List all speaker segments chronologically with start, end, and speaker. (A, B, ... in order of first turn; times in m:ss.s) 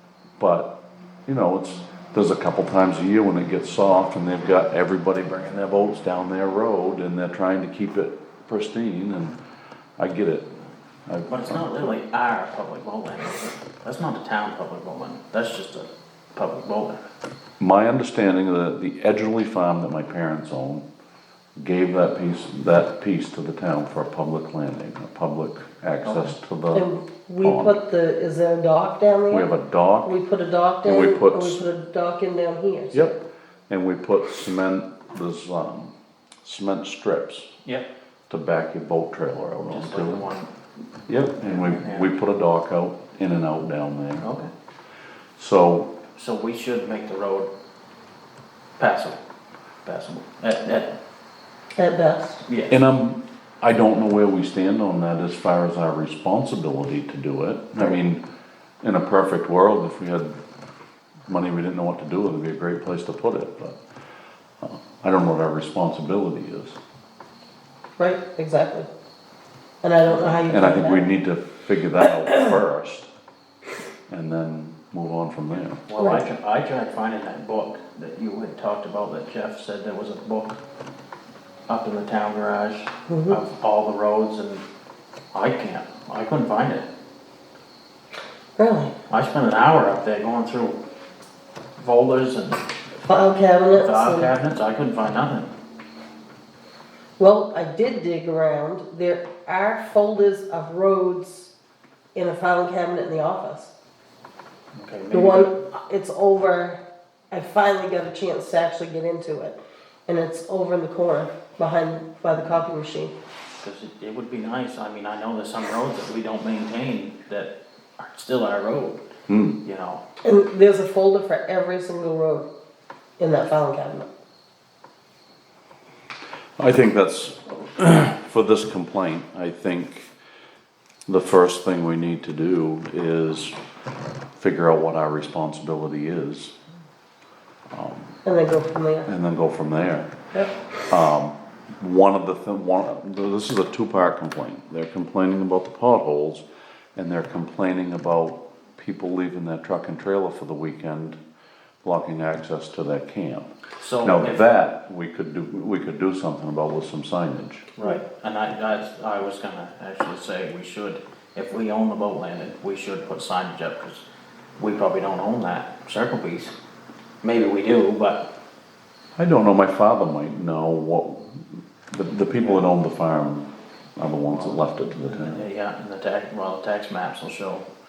0:00.4-0:00.7 A
0:01.3-0:09.4 A
0:10.0-0:10.5 A
0:11.1-0:11.9 A
0:11.3-0:17.0 B
0:17.6-0:20.9 A
0:21.6-0:27.8 A
0:26.0-0:26.4 B
0:26.7-0:29.5 C
0:29.3-0:30.2 A
0:30.0-0:33.0 C
0:30.8-0:31.6 A
0:32.9-0:37.5 A
0:38.3-0:40.2 A
0:39.3-0:40.5 B
0:41.1-0:44.3 A
0:41.4-0:42.1 B
0:44.2-0:44.5 B
0:45.4-0:45.9 A
0:46.2-0:47.5 B
0:48.8-0:49.2 B
0:49.8-0:51.0 B
0:51.8-0:52.4 C
0:52.5-0:52.8 B
0:52.7-0:58.2 A
0:58.8-1:00.4 A
1:01.3-1:03.8 A
1:04.6-1:06.8 A
1:08.0-1:08.9 C
1:09.8-1:11.1 C
1:10.1-1:10.4 B
1:10.4-1:13.1 A
1:14.1-1:15.8 A
1:15.9-1:20.6 B
1:16.0-1:16.2 C
1:21.7-1:24.6 B
1:23.1-1:23.4 C
1:25.3-1:26.9 B
1:28.6-1:29.0 C
1:29.1-1:30.8 B
1:31.8-1:32.7 B
1:33.0-1:34.3 C
1:33.8-1:35.5 B
1:37.2-1:41.5 C
1:42.2-1:43.7 C
1:44.8-1:45.6 B
1:45.1-1:53.1 C
1:53.6-1:59.0 B
1:59.3-1:59.6 A
1:59.6-2:00.0 B
2:00.2-2:02.5 C
2:03.2-2:04.1 C
2:06.6-2:10.1 A
2:11.1-2:13.6 A
2:14.4-2:16.5 A
2:17.7-2:18.2 A
2:18.2-2:19.1 C
2:19.1-2:20.1 A
2:20.8-2:26.4 A
2:27.0-2:31.2 A
2:31.8-2:33.5 A
2:33.8-2:34.4 B
2:34.0-2:37.7 A
2:37.8-2:44.0 B
2:44.6-2:46.5 B
2:47.2-2:48.3 B
2:49.2-2:55.5 A
2:54.3-2:57.7 B